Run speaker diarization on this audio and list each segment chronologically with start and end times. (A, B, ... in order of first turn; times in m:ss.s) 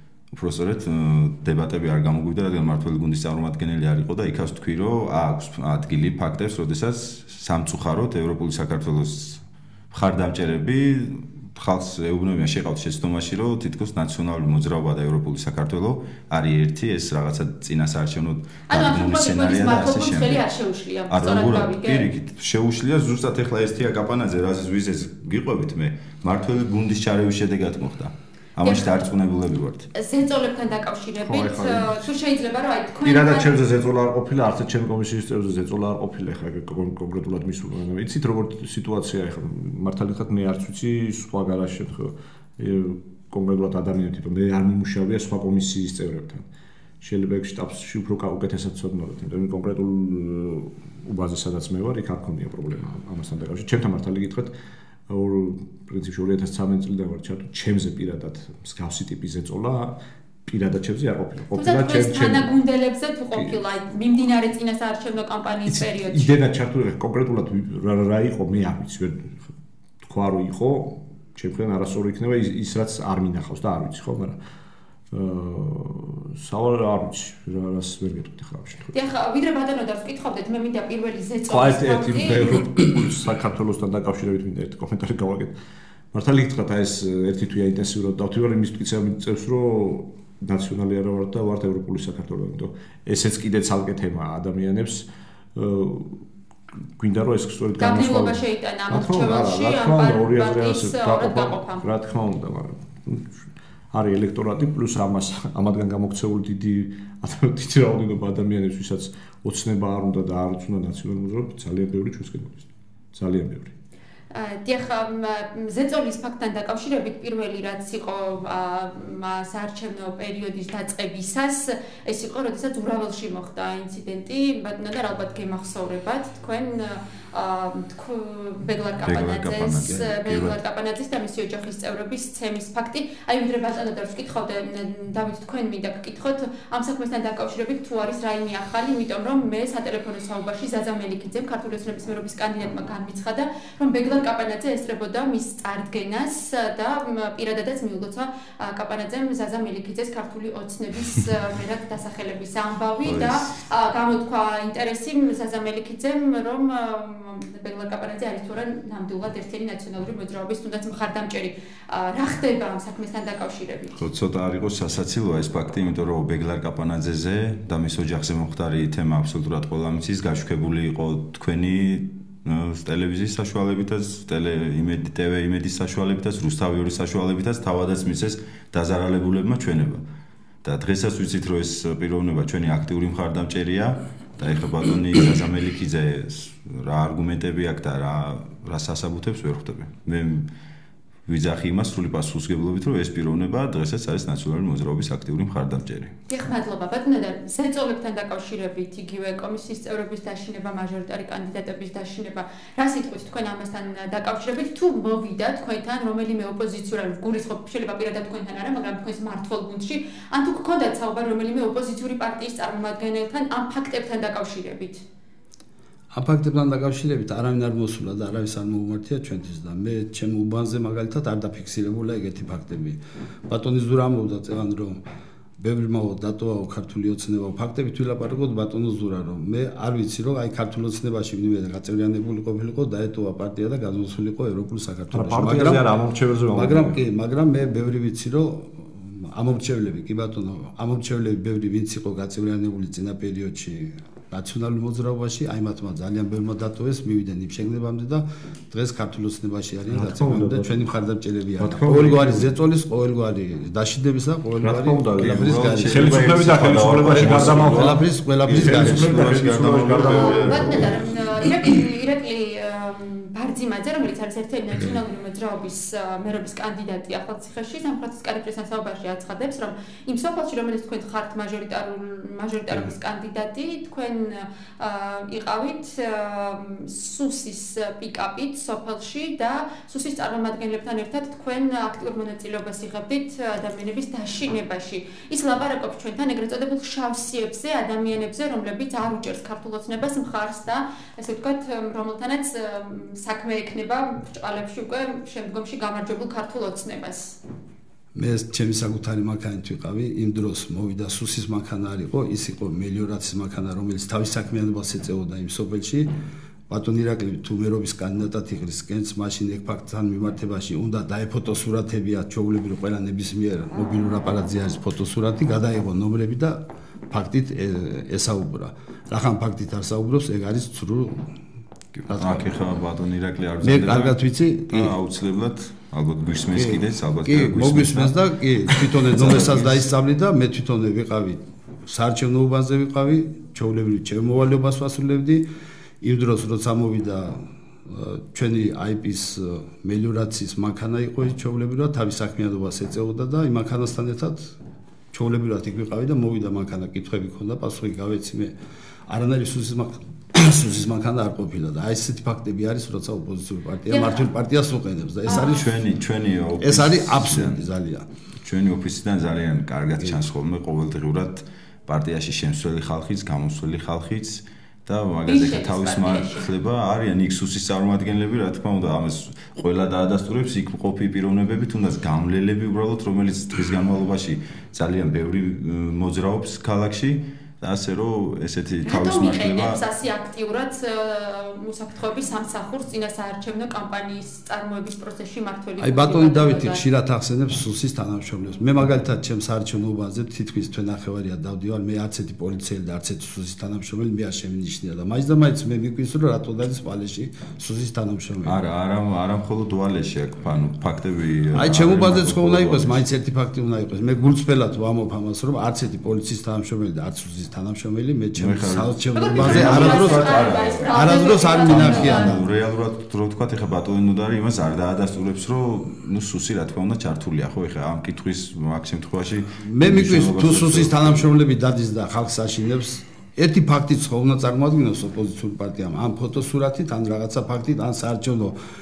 0:00.3-0:20.4 A
0:18.7-0:22.1 B
0:21.1-0:29.9 A
0:28.6-0:29.0 B
0:29.9-0:33.5 B
0:31.2-0:32.0 C
0:33.0-0:46.5 C
0:47.0-0:54.5 C
0:55.1-1:02.5 C
1:01.5-1:06.3 B
1:05.7-1:09.5 C
1:10.0-1:14.4 C
1:15.1-1:18.9 C
1:18.9-1:22.6 B
1:21.5-1:25.5 C
1:26.1-1:36.2 C
1:37.0-1:53.7 C
1:37.8-1:41.9 B
1:54.3-2:44.0 B
2:09.1-2:10.6 A
2:33.0-2:33.6 A
2:44.0-3:00.0 A
3:00.6-3:10.5 A
3:11.3-3:16.2 A
3:16.3-3:35.0 B
3:36.1-3:45.0 D
3:45.6-3:55.9 D
3:55.1-3:57.0 C
3:56.5-4:16.2 D
4:09.9-4:10.8 C
4:11.6-4:12.5 C
4:14.6-4:21.0 C
4:15.2-4:21.1 A
4:17.1-4:19.2 D
4:20.0-4:57.4 B
4:58.1-5:06.1 D
5:06.7-5:21.2 D
5:21.9-5:24.2 A
5:22.1-5:22.5 D
5:23.6-5:24.9 D
5:24.7-5:28.1 A
5:26.5-5:35.4 D
5:28.7-5:29.9 A
5:36.0-5:44.5 D
5:45.1-5:48.5 D
5:49.1-5:55.7 D
5:53.9-5:54.3 B
5:55.2-5:55.6 B
5:55.3-5:57.6 A
5:56.6-5:58.0 D
5:58.4-6:19.8 A
6:05.3-6:06.5 B
6:18.8-6:26.8 B
6:25.8-6:38.6 D
6:38.4-6:43.0 A
6:41.5-6:52.4 D
6:48.3-6:50.9 A
6:49.1-6:52.4 B
6:51.6-7:01.3 A
6:59.6-7:08.6 D